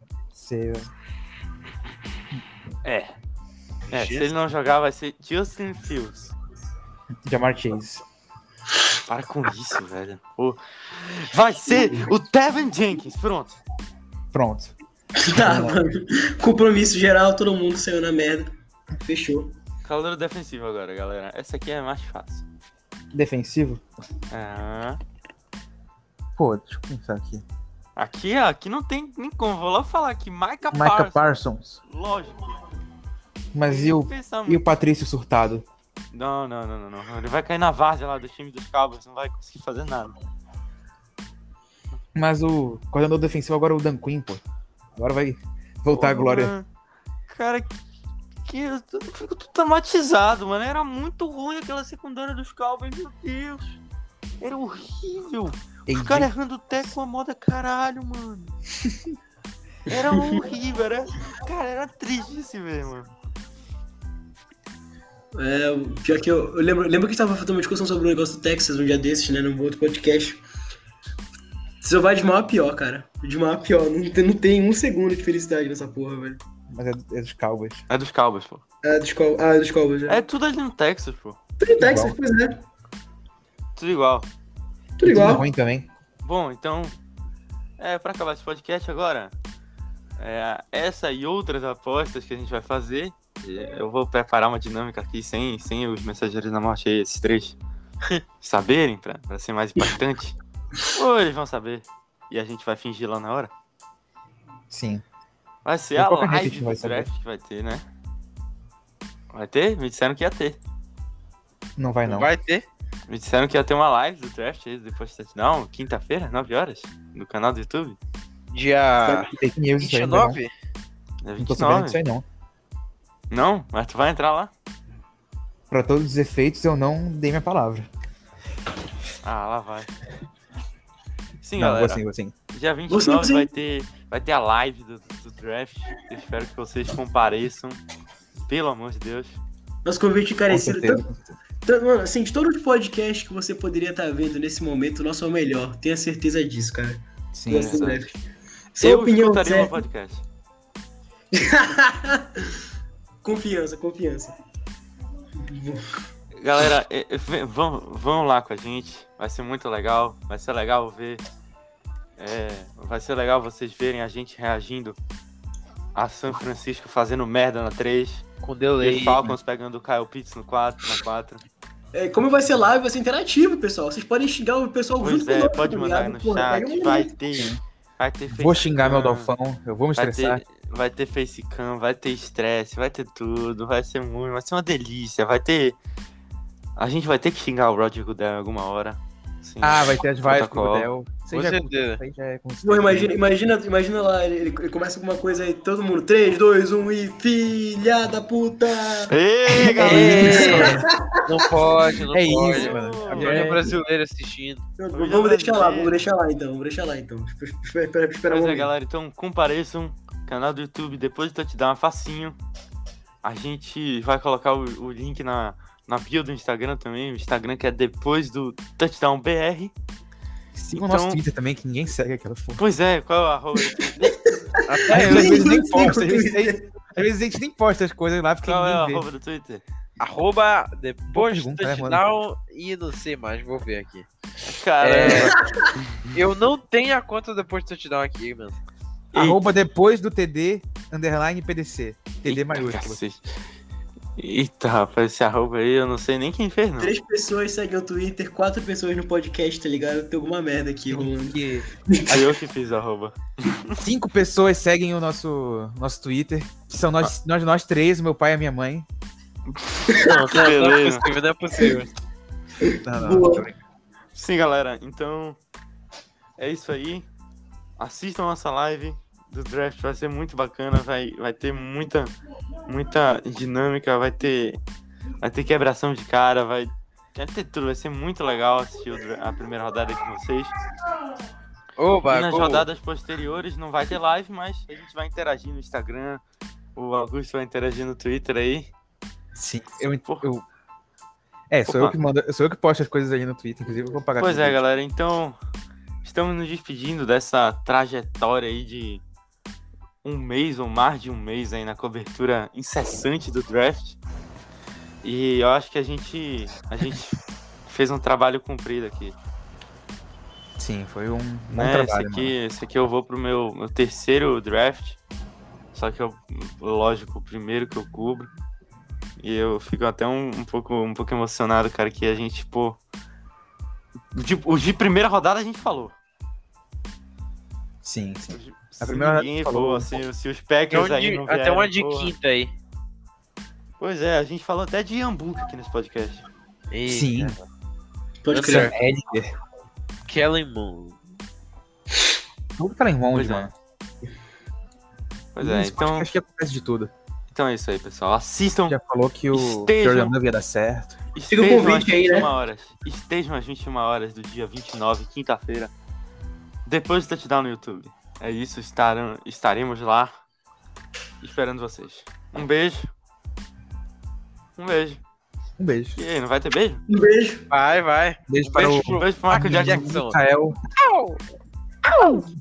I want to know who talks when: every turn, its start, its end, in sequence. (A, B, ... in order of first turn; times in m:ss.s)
0:00.3-0:00.9 A
0:02.8-0:03.1 B
0:03.9-0:06.3 B
0:03.9-0:04.3 C
0:07.2-0:08.0 A
0:09.1-0:13.6 B
0:14.3-0:14.7 A
0:15.2-0:19.5 D
0:15.3-0:15.9 A
0:19.8-0:22.4 B
0:23.1-0:23.8 A
0:24.3-0:25.0 B
0:26.4-0:27.4 A
0:28.0-0:31.3 B
0:30.7-0:31.8 A
0:31.8-0:32.6 B
0:33.5-0:35.6 A
0:33.6-0:34.6 B
0:36.1-0:40.2 B
0:42.1-0:44.4 A
0:45.0-0:46.5 A
0:45.9-0:46.6 B
0:47.3-0:47.8 B
0:48.4-0:53.8 B
0:54.4-0:58.5 B
0:55.9-0:56.3 A
0:59.9-1:03.1 B
0:59.9-1:00.4 D
1:05.3-1:10.4 D
1:11.8-1:16.4 D
1:16.7-1:17.8 A
1:17.9-1:18.6 B
1:18.8-1:20.2 D
1:20.1-1:21.4 B
1:21.6-1:22.6 D
1:21.8-1:22.2 A
1:23.8-1:24.3 B
1:25.0-1:25.4 D
1:25.0-1:25.9 A
1:26.2-1:27.0 B
1:27.8-1:29.3 B
1:30.2-1:37.6 B
1:38.4-1:40.4 B
1:40.9-1:43.5 B
1:44.7-1:45.0 A
1:45.6-1:47.8 B
1:46.0-1:47.1 A
1:49.3-1:50.6 B
1:51.8-1:52.3 A
1:52.0-1:52.6 C
1:53.1-1:58.0 B
1:58.5-2:00.5 C
1:59.2-2:00.4 A
2:01.2-2:02.0 B
2:01.4-2:02.2 A
2:03.3-2:04.5 B
2:05.7-2:07.8 A
2:09.2-2:09.9 B
2:11.4-2:17.8 B
2:11.6-2:12.3 A
2:12.9-2:13.5 D
2:18.5-2:19.4 B
2:19.8-2:21.0 D
2:20.5-2:21.3 A
2:21.6-2:28.1 D
2:27.3-2:27.9 A
2:27.5-2:28.1 B
2:28.8-2:29.8 D
2:28.8-2:30.2 B
2:31.3-2:32.6 D
2:33.2-2:34.4 D
2:35.4-2:36.0 D
2:36.4-2:41.2 B
2:42.2-2:45.0 B
2:45.9-2:48.2 B
2:48.4-2:49.2 C
2:48.8-2:51.4 B
2:51.9-2:57.1 D
2:55.0-2:59.3 B
2:57.3-2:57.6 A
2:58.3-3:00.4 A
3:00.0-3:05.8 B
3:06.8-3:10.9 B
3:09.6-3:13.1 A
3:11.3-3:12.0 C
3:12.6-3:19.1 D
3:19.1-3:20.8 B
3:19.7-3:21.6 D
3:19.8-3:20.9 A
3:19.8-3:24.6 C
3:22.1-3:23.8 A
3:22.4-3:23.5 B
3:24.8-3:28.7 D
3:24.9-3:26.0 B
3:28.3-3:32.4 B
3:33.2-3:39.7 B
3:40.5-3:42.6 A
3:40.7-3:41.2 B
3:42.6-3:44.1 B
3:44.0-3:46.6 D
3:44.6-3:45.5 C
3:44.9-3:49.0 A
3:48.4-3:49.6 B
3:50.0-3:54.1 C
3:51.1-3:52.0 A
3:54.4-3:56.2 B
3:54.8-3:55.4 C
3:55.2-3:55.6 D
3:56.1-3:58.6 C
3:59.1-3:59.5 B
3:59.1-4:03.0 A
4:02.2-4:03.3 B
4:04.2-4:06.9 B
4:06.8-4:12.3 D
4:10.9-4:11.7 A
4:12.1-4:13.8 B
4:13.8-4:18.9 A
4:19.5-4:21.0 B
4:19.9-4:20.2 D
4:20.0-4:21.9 C
4:22.6-4:23.4 D
4:22.8-4:23.6 A
4:24.1-4:25.4 B
4:26.4-4:27.1 B
4:27.8-4:32.1 B
4:32.7-4:34.6 B
4:35.2-4:40.5 B
4:41.8-4:42.6 C
4:42.1-4:46.2 B
4:46.8-4:48.7 B
4:49.4-4:50.4 A
4:51.5-4:54.6 A
4:51.7-4:52.0 B
4:54.2-4:55.4 B
4:56.0-4:59.0 B
5:00.0-5:04.0 B
5:05.0-5:09.2 B
5:10.6-5:12.3 A
5:11.5-5:15.0 B
5:15.7-5:18.3 B
5:19.2-5:22.8 B
5:24.1-5:25.9 B
5:27.8-5:29.9 A
5:28.3-5:32.1 B
5:30.7-5:32.5 C
5:33.8-5:36.2 B
5:36.7-5:37.4 C
5:36.9-5:37.4 A
5:38.2-5:38.7 D
5:38.3-5:38.7 C
5:38.4-5:39.3 A
5:40.0-5:41.0 C
5:42.6-5:43.5 A
5:43.1-5:43.5 B
5:45.3-5:46.1 B
5:45.4-5:46.9 A
5:47.3-5:48.8 B
5:48.7-5:51.0 A
5:49.3-5:50.2 B
5:51.1-5:55.7 B
5:51.3-5:52.3 D
5:56.6-6:00.1 B
6:01.2-6:02.9 B
6:04.6-6:05.0 B
6:05.6-6:06.0 A
6:06.0-6:06.8 B
6:06.9-6:07.5 D
6:07.5-6:10.2 C
6:08.3-6:10.6 A
6:08.5-6:09.8 B
6:10.8-6:11.2 C
6:12.0-6:12.2 C